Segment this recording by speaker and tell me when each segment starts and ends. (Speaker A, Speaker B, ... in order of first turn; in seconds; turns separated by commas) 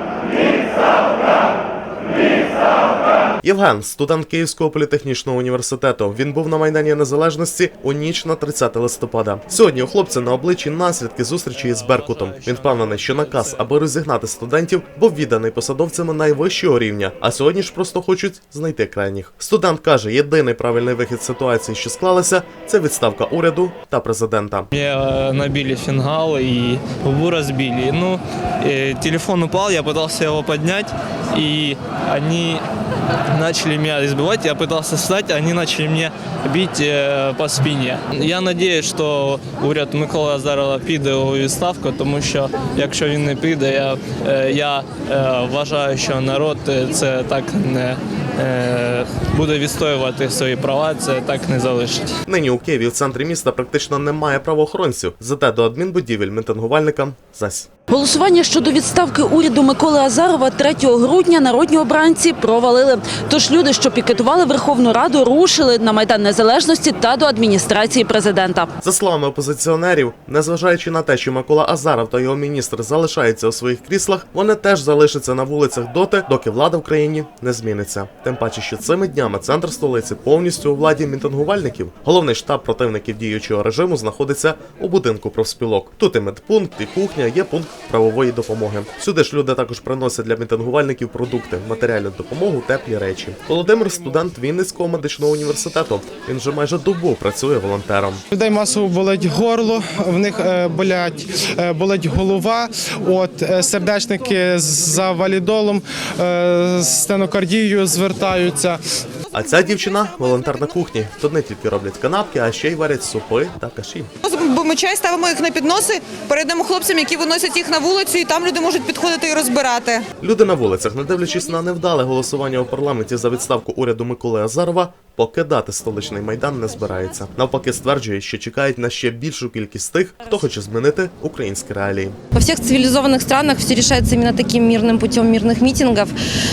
Speaker A: 3.4-24.7, Speaker B: 11.5-13.7, Speaker B: 24.7-32.6, Speaker B: 33.4-52.1, Speaker A: 52.3-57.7, Speaker C: 57.9-68.7, Speaker A: 68.8-98.2, Speaker D: 98.3-108.8, Speaker A: 109.3-114.1, Speaker E: 114.3-120.0, Speaker A: 120.2-132.2, Speaker F: 132.3-136.1